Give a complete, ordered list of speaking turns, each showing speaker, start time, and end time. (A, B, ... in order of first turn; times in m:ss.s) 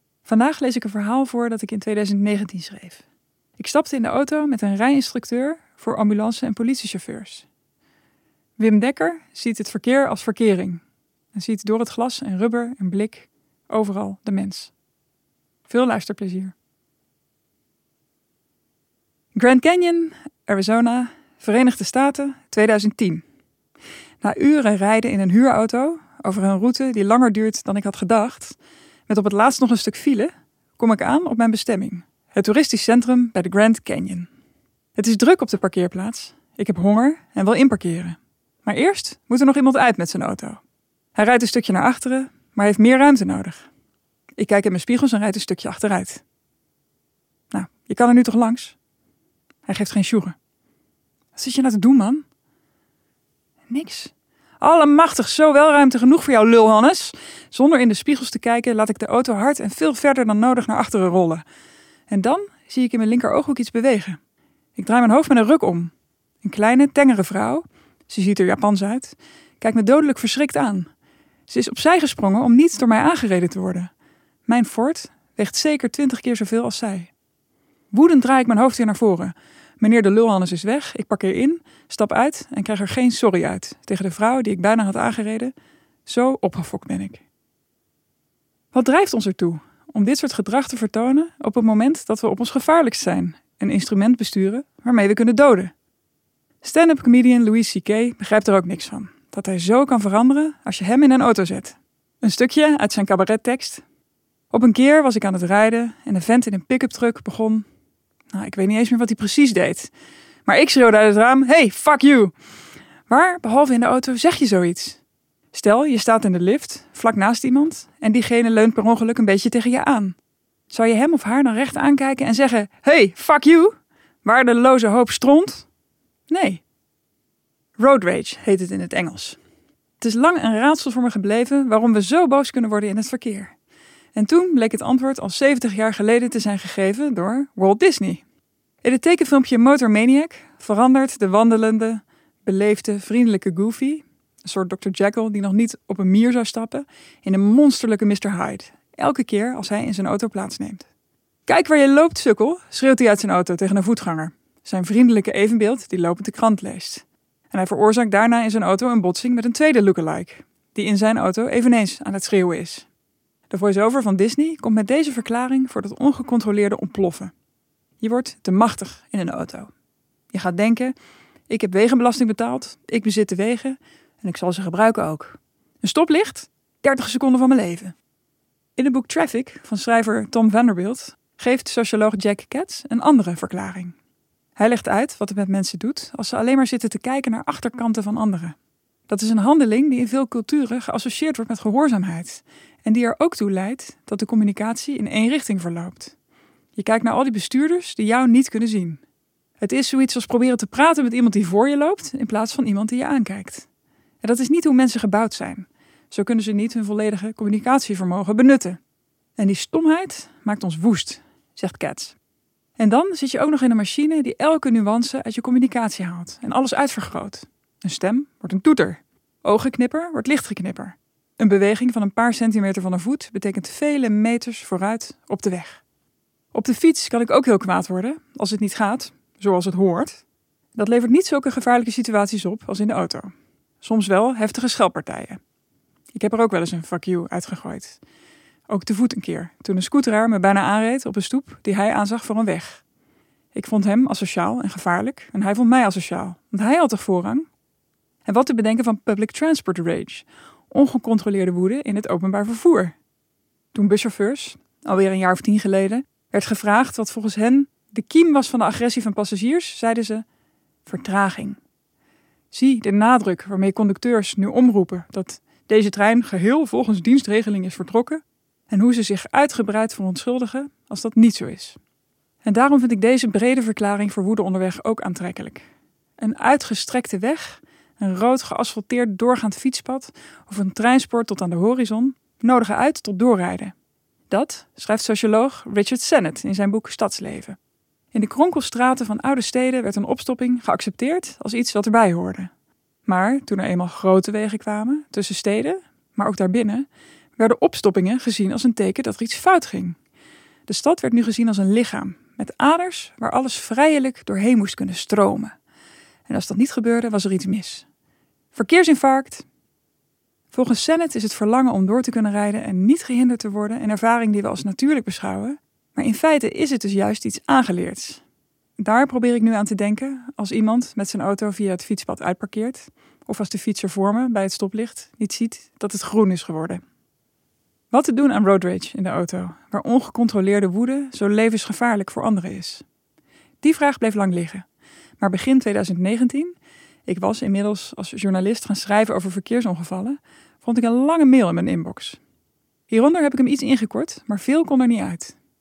0:00.2-0:03.0 A
0:03.6-0:07.5 A
0:08.6-0:10.8 A
0:11.3-0:14.7 A
0:15.7-0:16.5 A
0:19.4-0:23.2 A
0:24.2-0:34.3 A
0:35.0-0:40.6 A
0:41.2-0:43.7 A
0:44.4-0:46.2 A
0:47.5-0:48.8 A
0:49.7-0:50.4 A
0:51.4-0:52.2 A
0:53.7-1:01.4 A
1:02.1-1:04.2 A
1:04.8-1:10.9 A
1:11.5-1:13.9 A
1:14.5-1:17.1 A
1:17.9-1:25.5 A
1:26.1-1:27.2 A
1:28.7-1:35.7 A
1:36.6-1:43.8 A
1:44.5-1:47.7 A
1:48.3-1:49.9 A
1:50.5-1:52.3 A
1:53.1-1:55.0 A
1:55.5-2:00.2 A
2:00.7-2:05.7 A
2:06.3-2:06.6 A
2:07.8-2:09.4 A
2:10.0-2:13.6 A
2:14.2-2:18.2 A
2:18.8-2:30.9 A
2:31.5-2:42.9 A
2:43.5-2:47.3 A
2:48.0-2:49.7 A
2:50.3-2:50.9 A
2:51.5-2:57.9 A
2:58.8-3:04.0 A
3:04.6-3:08.6 A
3:09.1-3:16.2 A
3:16.8-3:19.0 A
3:19.6-3:23.7 A
3:24.2-3:28.8 A
3:29.4-3:32.2 A
3:32.8-3:45.8 A
3:46.5-3:50.2 A
3:50.8-3:55.4 A
3:56.1-3:58.0 A
3:58.7-4:02.8 A
4:03.5-4:07.5 A
4:08.3-4:13.0 A
4:13.7-4:20.2 A
4:20.9-4:21.6 A
4:22.5-4:31.8 A
4:32.4-4:35.6 A
4:36.2-4:43.7 A
4:44.3-4:47.6 A
4:48.1-4:52.5 A
4:53.1-5:00.0 A
5:00.7-5:05.5 A
5:06.3-5:07.9 A
5:08.5-5:09.4 A
5:10.5-5:18.2 A
5:18.8-5:26.8 A
5:27.9-5:32.8 A
5:33.6-5:34.6 A
5:35.2-5:36.6 A
5:37.1-5:42.2 A
5:42.9-5:45.4 A